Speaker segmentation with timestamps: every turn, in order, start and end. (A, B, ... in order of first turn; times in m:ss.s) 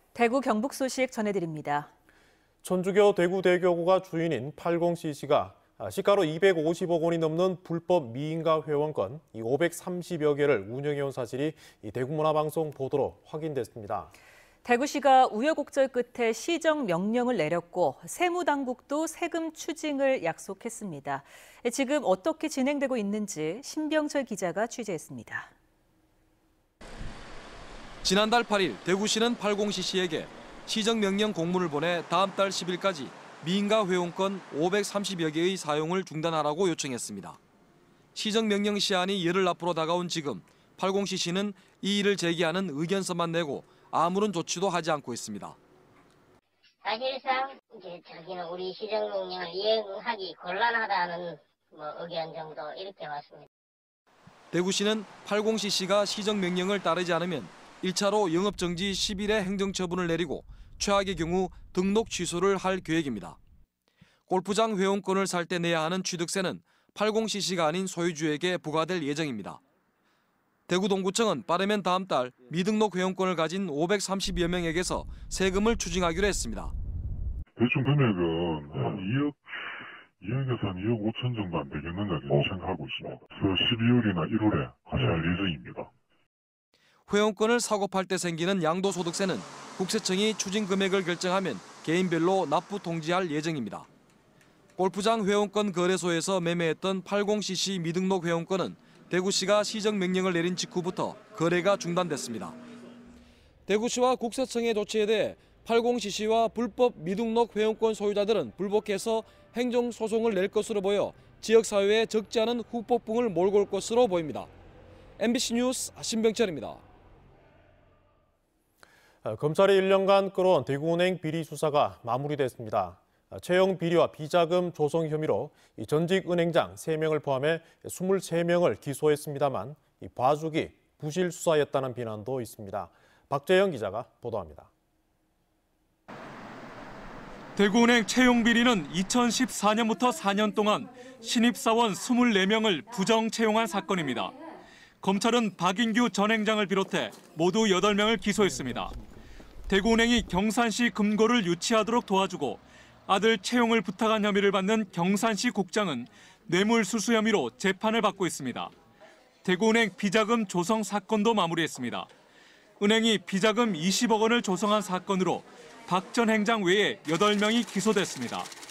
0:00.1-0:01.9 A
0:02.6-0:14.1 B
0:14.6-0:25.5 A
0:28.0-0:37.4 C
0:38.1-0:45.6 C
0:46.9-0:53.4 D
0:54.5-1:03.4 C
1:04.3-1:09.6 C
1:10.7-1:16.7 C
1:17.6-1:19.4 E
1:20.2-1:25.9 E
1:27.1-1:33.9 C
1:34.8-1:42.6 C
1:43.7-1:54.5 C
1:55.2-1:56.8 C
1:59.2-2:14.7 B
2:17.6-2:24.3 F
2:25.0-2:28.9 F
2:29.7-2:38.7 F
2:39.4-2:42.1 F
2:42.8-2:48.5 F